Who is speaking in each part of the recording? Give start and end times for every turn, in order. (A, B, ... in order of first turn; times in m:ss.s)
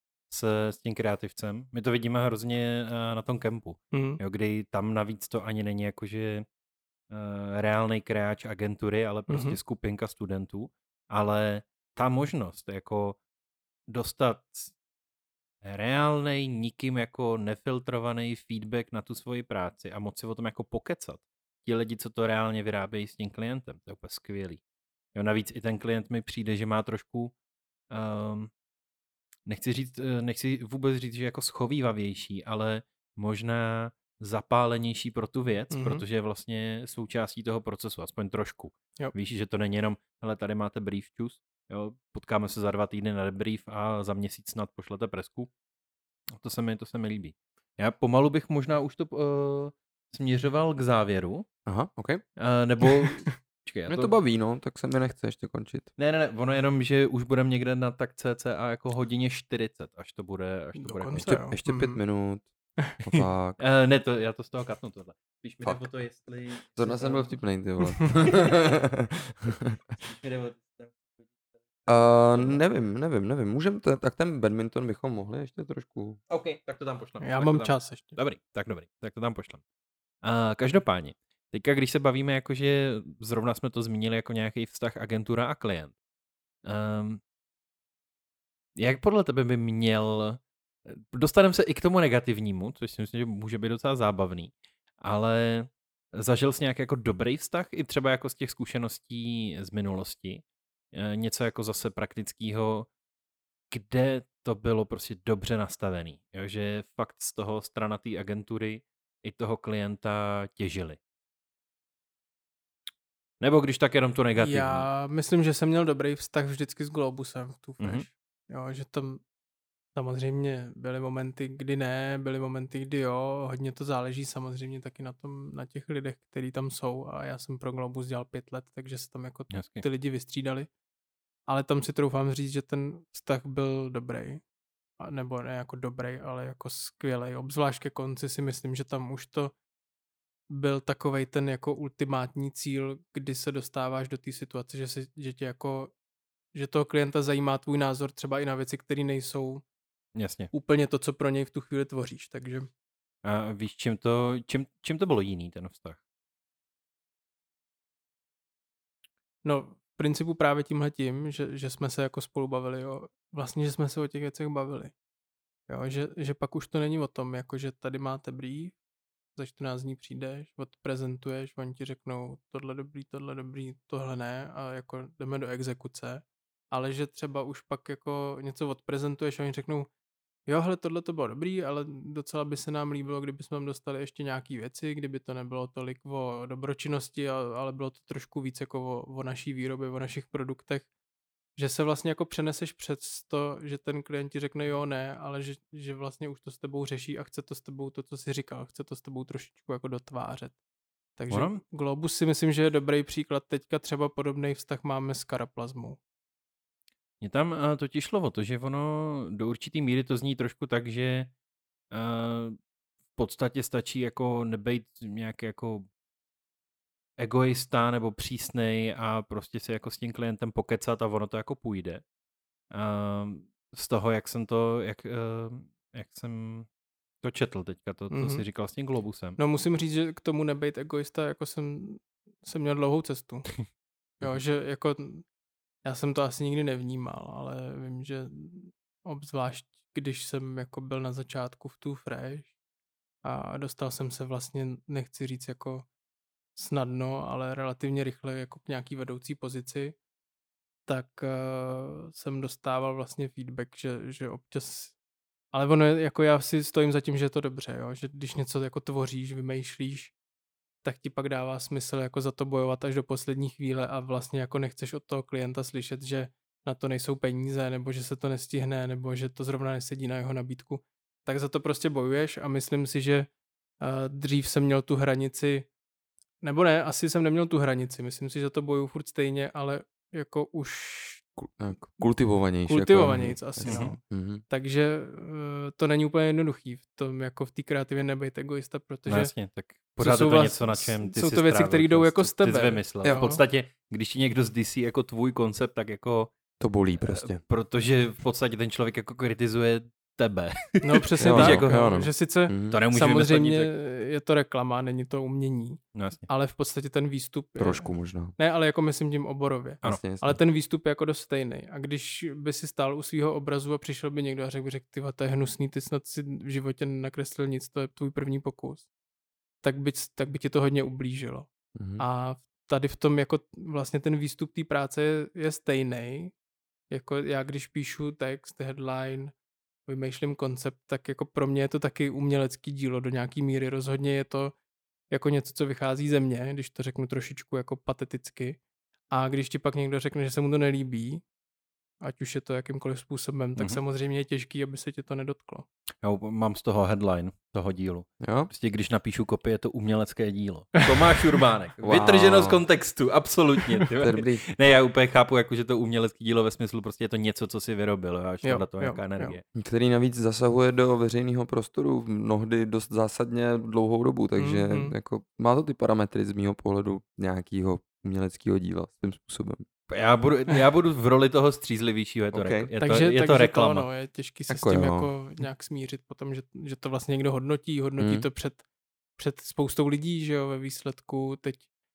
0:00.3-0:06.4 A
0:03.9-0:04.2 B
0:07.1-0:13.2 A
0:09.3-0:09.6 B
0:13.9-0:14.7 A
0:15.6-0:24.6 A
0:25.1-0:27.3 A
0:27.9-0:28.5 A
0:29.4-0:45.5 A
0:35.7-0:36.0 B
0:46.3-0:51.4 A
0:51.6-0:52.2 C
0:52.4-0:54.1 A
0:53.0-0:53.3 B
0:53.9-0:55.9 C
0:56.0-1:01.3 A
1:00.7-1:02.0 B
1:01.2-1:02.5 C
1:03.0-1:03.6 C
1:03.6-1:07.3 A
1:06.8-1:09.8 C
1:10.0-1:11.3 A
1:11.8-1:12.6 A
1:11.9-1:16.2 C
1:16.3-1:19.6 A
1:17.2-1:18.2 B
1:20.2-1:25.9 A
1:26.6-1:27.2 A
1:28.8-1:42.9 A
1:43.7-1:51.0 A
1:53.4-1:54.9 A
1:54.4-1:59.2 B
1:57.8-1:58.0 A
1:59.9-2:10.7 B
2:09.5-2:09.8 A
2:11.5-2:14.4 B
2:15.0-2:19.5 B
2:20.5-2:25.9 B
2:26.5-2:29.6 B
2:30.1-2:30.5 A
2:30.5-2:32.7 B
2:33.2-2:36.0 A
2:39.4-2:44.9 B
2:45.7-2:48.8 B
2:49.4-2:59.9 B
3:00.5-3:10.9 B
3:11.6-3:20.6 B
3:21.2-3:26.0 B
3:21.3-3:21.6 A
3:27.2-3:31.3 A
3:31.9-3:32.6 A
3:33.2-3:35.9 A
3:37.2-3:42.0 A
3:42.7-3:46.7 A
3:47.2-3:49.4 A
3:48.1-3:48.4 B
3:49.4-3:53.5 B
3:54.2-3:55.3 B
3:55.8-4:02.5 B
4:03.2-4:05.8 B
4:06.6-4:09.9 B
4:10.9-4:15.0 B
4:15.5-4:20.1 B
4:20.8-4:33.3 B
4:33.8-4:35.7 B
4:36.4-4:41.3 B
4:41.4-4:44.4 C
4:42.7-4:49.3 B
4:43.6-4:43.9 A
4:49.1-4:56.3 A
4:50.0-4:53.4 B
4:56.6-4:57.4 C
4:57.0-5:01.7 A
5:00.8-5:18.9 B
5:01.2-5:02.8 C
5:02.7-5:03.7 A
5:05.9-5:06.2 A
5:07.6-5:08.4 C
5:09.8-5:10.4 C
5:19.6-5:26.3 B
5:21.8-5:22.0 C
5:26.9-5:29.3 B
5:29.9-5:34.5 B
5:35.1-5:38.6 B
5:39.1-5:41.2 B
5:42.0-5:45.6 B
5:46.0-5:59.4 A
5:48.2-5:48.5 C
5:50.8-5:51.2 B
5:51.8-5:52.6 C
5:54.0-5:54.4 C
5:58.4-5:59.4 B
5:59.6-6:09.6 C
6:04.4-6:04.9 B
6:09.9-6:13.9 A
6:12.3-6:12.7 C
6:12.8-6:18.6 B
6:14.5-6:15.1 C
6:18.0-6:18.2 C
6:19.2-6:21.7 B